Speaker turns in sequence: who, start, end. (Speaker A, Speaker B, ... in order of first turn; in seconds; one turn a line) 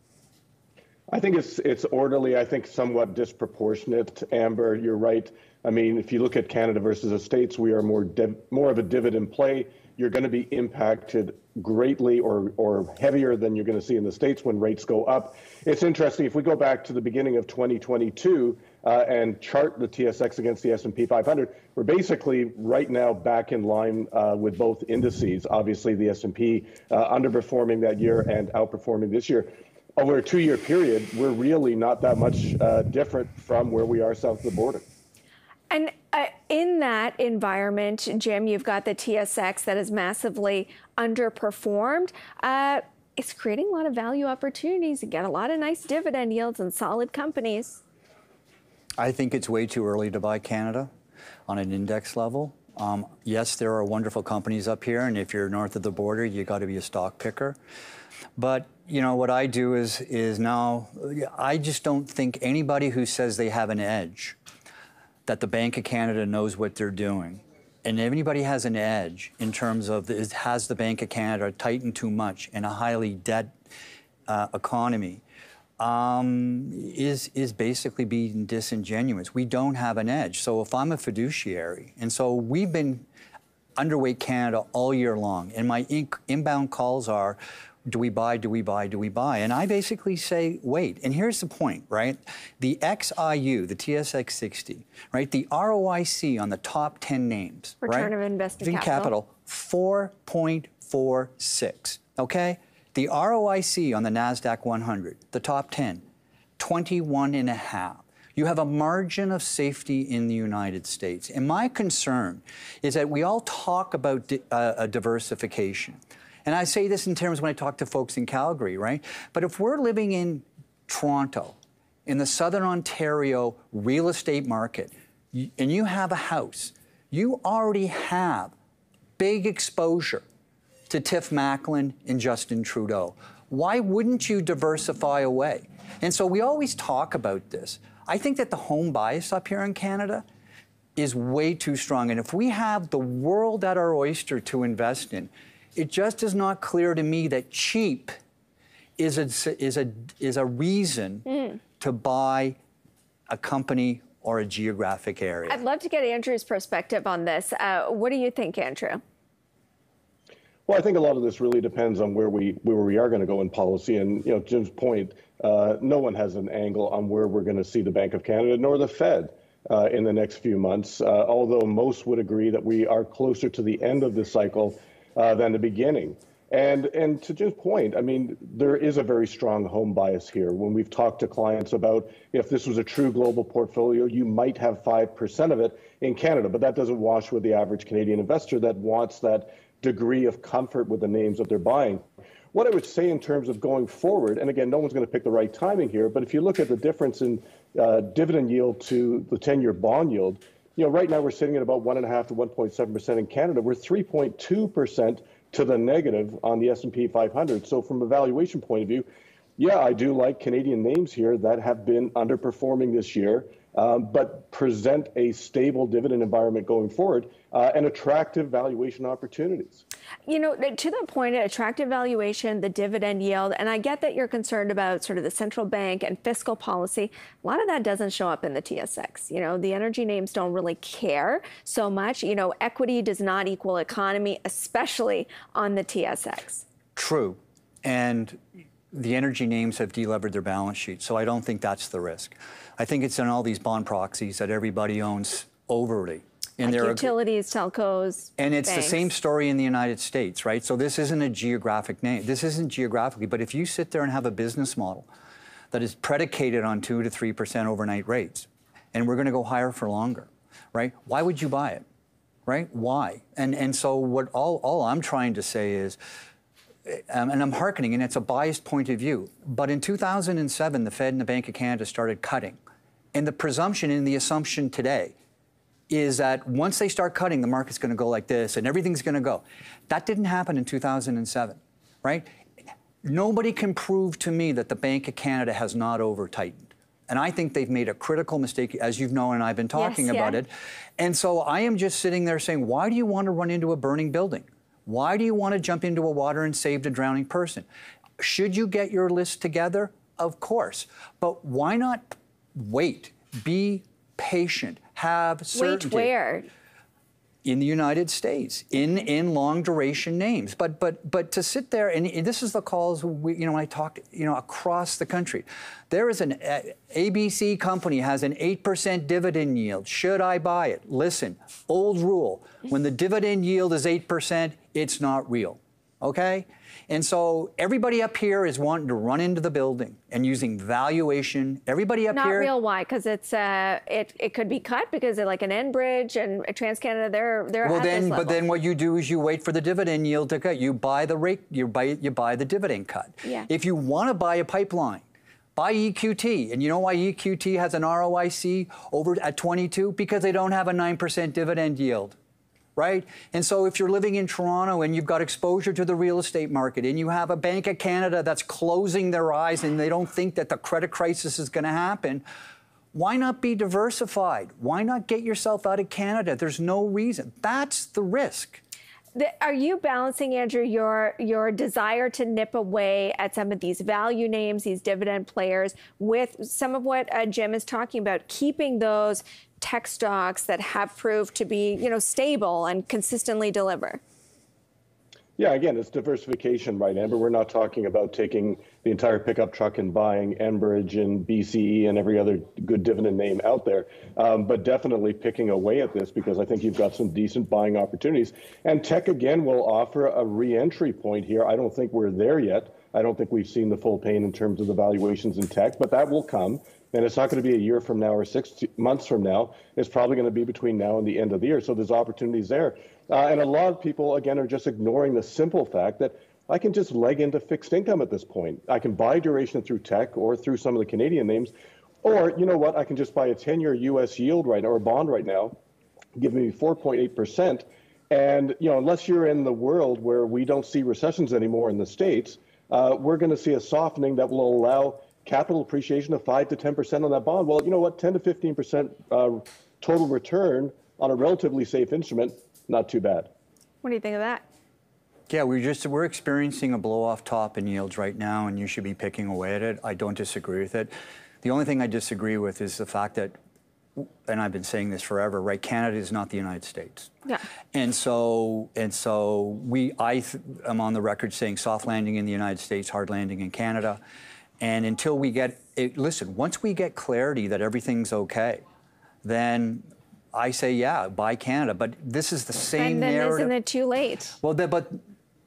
Speaker A: 1.1-34.8
Speaker B: 35.7-47.8
Speaker C: 49.0-50.9
Speaker C: 51.5-57.6
Speaker C: 58.4-64.4
Speaker C: 65.3-73.5
Speaker C: 74.3-75.2
Speaker C: 75.8-83.0
Speaker C: 83.8-106.0
Speaker B: 97.8-99.1
Speaker C: 106.6-128.5
Speaker C: 129.2-130.2
Speaker C: 130.9-140.2
Speaker C: 141.0-148.1
Speaker C: 149.0-151.2
Speaker B: 151.3-151.6
Speaker C: 151.8-152.6
Speaker C: 153.3-155.6
Speaker B: 155.5-159.0
Speaker A: 160.7-209.1
Speaker A: 209.6-219.8
Speaker B: 220.3-236.6
Speaker C: 236.9-238.4
Speaker C: 238.9-247.1
Speaker B: 246.6-249.1
Speaker C: 248.4-255.1
Speaker C: 255.7-261.8
Speaker C: 262.4-266.0
Speaker C: 266.9-272.6
Speaker C: 273.1-275.1
Speaker C: 275.9-282.2
Speaker C: 283.0-297.6
Speaker B: 289.7-290.4
Speaker C: 298.2-306.1
Speaker B: 305.5-306.5
Speaker C: 307.4-332.5
Speaker B: 332.1-338.4
Speaker C: 337.6-345.0
Speaker C: 345.6-352.2
Speaker C: 352.8-362.2
Speaker C: 362.9-368.6
Speaker B: 369.1-384.0
Speaker A: 385.4-421.5
Speaker A: 422.0-425.5
Speaker A: 426.1-443.3
Speaker B: 443.8-444.4
Speaker C: 445.3-453.3
Speaker C: 453.9-457.1
Speaker C: 457.7-464.0
Speaker C: 464.6-468.6
Speaker C: 469.2-473.5
Speaker B: 472.8-474.4
Speaker C: 474.4-475.0